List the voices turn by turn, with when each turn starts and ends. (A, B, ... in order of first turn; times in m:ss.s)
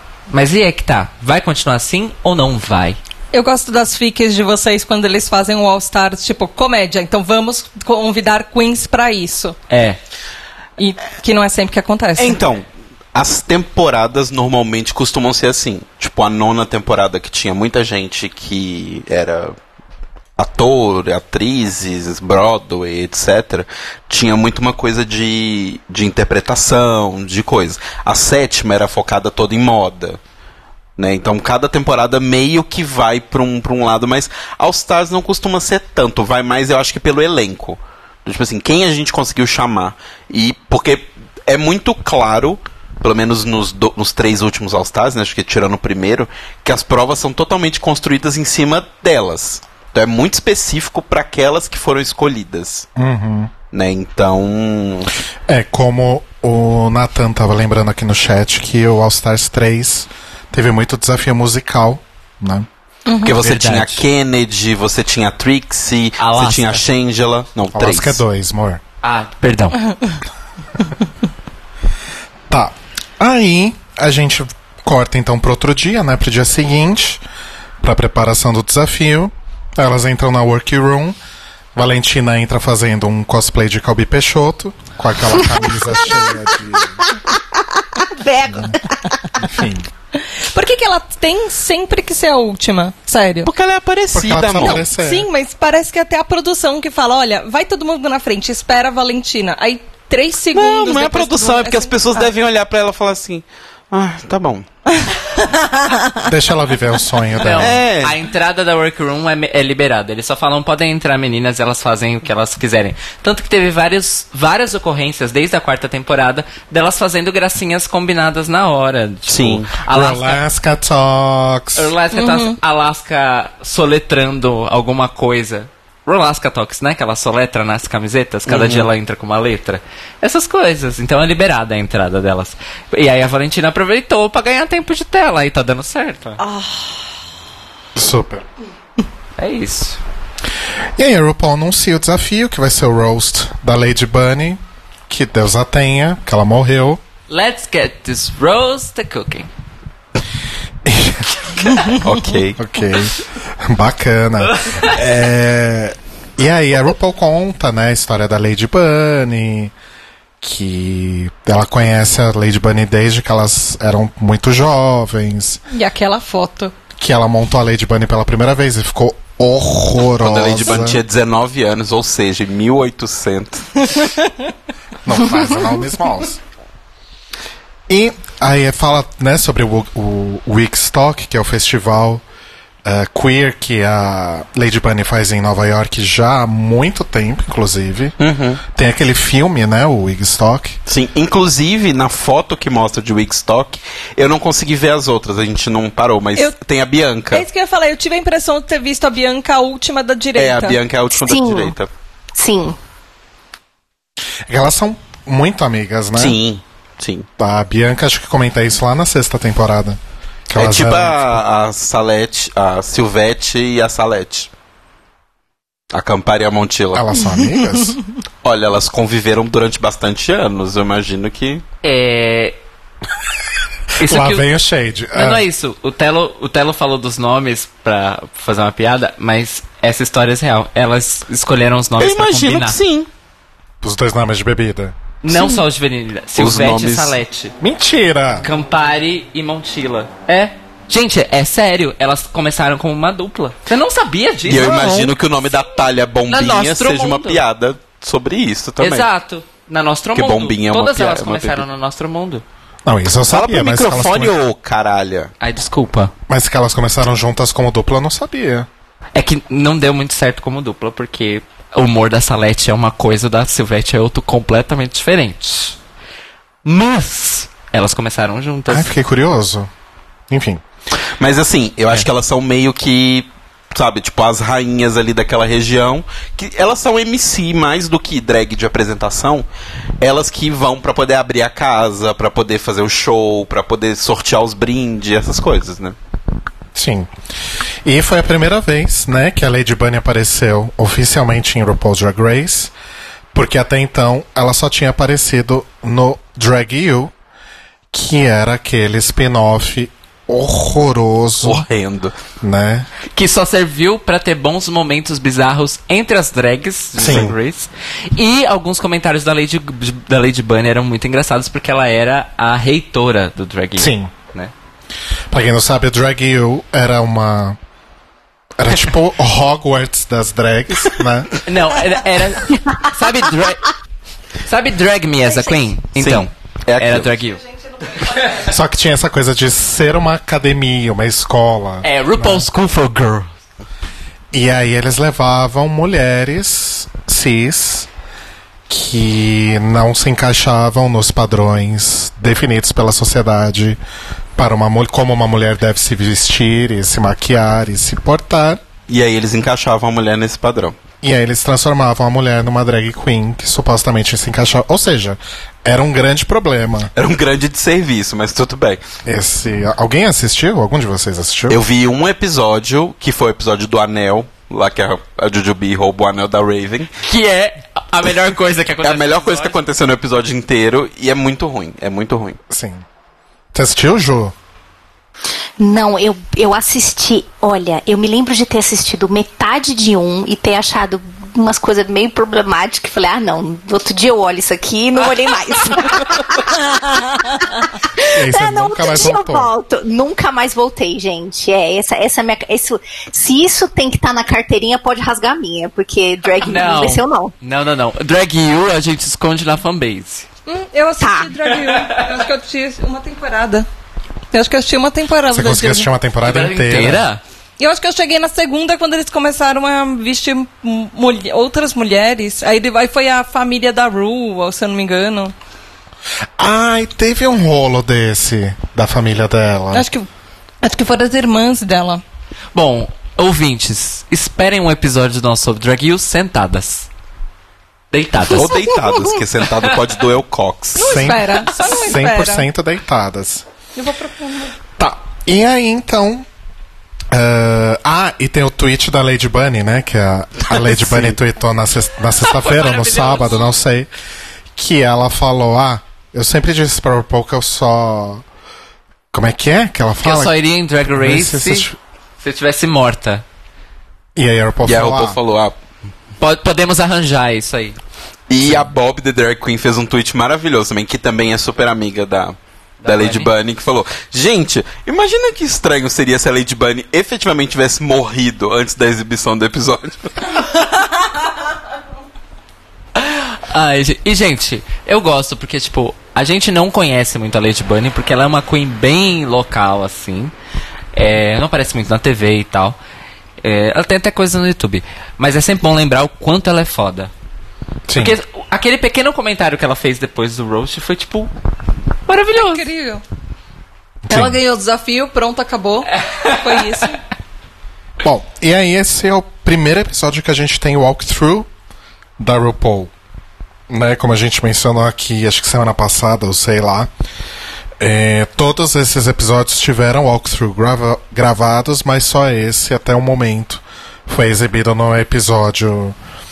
0:00.3-0:03.0 A
0:03.3-0:09.6 B
0:09.7-0:10.0 A
0:10.8-0:12.4 B
0:12.2-0:19.5 C
0:20.4-0:30.2 C
0:31.0-0:52.9 C
0:53.0-0:53.5 D
0:53.7-0:55.1 C
0:55.5-1:02.7 D
1:03.0-1:03.3 B
1:03.2-1:08.2 C
1:03.2-1:04.0 A
1:06.2-1:06.8 A
1:07.7-1:08.8 D
1:09.0-1:09.9 A
1:12.5-1:17.2 D
1:17.8-1:21.2 D
1:21.7-1:27.1 D
1:27.1-1:29.4 E
1:29.4-1:29.9 D
1:30.4-1:33.5 B
1:33.4-1:34.8 C
1:34.1-1:35.3 D
1:34.6-1:42.3 B
1:40.5-1:44.6 C
1:45.0-1:46.2 B
1:46.2-1:47.8 D
1:47.4-2:00.4 A
1:47.6-1:48.2 C
1:59.3-1:59.7 C
1:59.9-2:01.9 D
2:01.8-2:16.4 A
2:02.1-2:02.6 B
2:08.5-2:08.9 C
2:16.4-2:16.9 B
2:17.9-2:18.4 D
2:19.4-2:20.0 A
2:21.0-2:27.0 D
2:27.3-2:29.5 A
2:30.8-2:31.3 D
2:31.9-2:32.6 C
2:32.6-2:39.7 D
2:40.4-2:45.6 D
2:45.7-2:46.7 B
2:47.0-2:51.0 D
2:50.2-2:53.8 C
2:55.0-2:56.4 D
2:57.9-3:02.2 D
3:02.8-3:08.1 D
3:08.2-3:08.6 C
3:08.7-3:10.8 D
3:10.9-3:17.4 C
3:17.3-3:20.8 B
3:20.4-3:21.9 C
3:21.1-3:21.7 E
3:22.3-3:22.8 E
3:24.5-3:26.4 D
3:26.2-3:27.3 C
3:27.4-3:30.0 D
3:30.5-3:31.3 D
3:30.5-3:34.5 C
3:35.9-3:37.2 C
3:36.9-3:38.0 D
3:38.4-3:41.6 C
3:41.8-3:42.6 A
3:44.0-3:44.5 A
3:44.0-3:45.4 D
3:45.1-3:52.8 A
3:52.0-3:53.1 C
3:53.8-3:55.0 D
3:55.2-3:57.6 A
3:56.4-3:57.2 C
3:57.6-3:58.4 D
3:58.4-4:05.2 A
4:04.4-4:09.1 C
4:06.3-4:07.4 A
4:08.8-4:12.4 A
4:10.1-4:11.6 C
4:12.8-4:14.3 D
4:13.3-4:15.3 C
4:15.4-4:16.1 A
4:16.3-4:18.7 D
4:19.1-4:25.8 A
4:26.6-4:28.9 A
4:28.7-4:29.7 D
4:30.3-4:30.6 D
4:31.2-4:39.4 C
4:40.0-4:45.9 C
4:46.7-4:47.1 D
4:47.8-4:52.7 D
4:53.3-4:57.1 D
4:57.9-5:01.6 D
5:01.4-5:02.1 C
5:02.4-5:02.9 D
5:03.1-5:14.5 A
5:07.0-5:07.3 C
5:07.0-5:07.3 D
5:13.8-5:14.1 D
5:15.3-5:17.6 D
5:18.6-5:21.3 D
5:21.4-5:23.7 A
5:24.4-5:27.4 A
5:26.0-5:27.2 C
5:28.4-5:32.4 D
5:31.8-5:33.3 A
5:34.3-5:37.9 D
5:38.7-5:43.8 D
5:44.4-5:48.6 D
5:48.9-5:50.8 C
5:51.0-5:56.9 D
5:57.0-5:58.8 C
5:59.0-6:01.6 D
6:01.5-6:06.9 C
6:07.0-6:09.6 A
6:08.8-6:12.4 C
6:12.5-6:12.8 D
6:13.5-6:14.3 D
6:15.6-6:37.3 E
6:28.1-6:29.5 D
6:36.4-6:40.3 A
6:40.5-6:43.7 B
6:41.0-6:41.3 E
6:44.3-6:45.9 B
6:45.3-6:47.0 D
6:46.2-6:47.2 A
6:47.6-6:55.3 B
6:56.4-6:59.9 D
6:59.7-7:00.1 B
7:00.6-7:02.0 B
7:02.5-7:06.9 A
7:07.9-7:08.6 A
7:08.2-7:11.1 C
7:10.8-7:12.5 B
7:10.8-7:13.4 D
7:13.8-7:14.6 B
7:14.8-7:16.2 D
7:17.1-7:23.9 D
7:22.2-7:23.5 A
7:24.6-7:28.2 D
7:29.1-7:31.8 D
7:30.0-7:31.7 A
7:32.2-7:33.2 A
7:34.2-7:35.2 D
7:34.6-7:35.6 C
7:36.2-7:37.8 A
7:38.3-7:50.3 C
7:42.8-7:43.3 A
7:53.0-8:00.3 A
8:00.9-8:02.8 A
8:03.4-8:07.1 A
8:07.9-8:08.1 D
8:08.0-8:11.3 A
8:12.1-8:12.6 A
8:12.3-8:13.0 B
8:14.0-8:14.4 D
8:14.1-8:17.0 B
8:16.0-8:16.6 A
8:18.0-8:21.5 D
8:22.2-8:22.9 D
8:23.7-8:26.9 D
8:27.8-8:35.9 D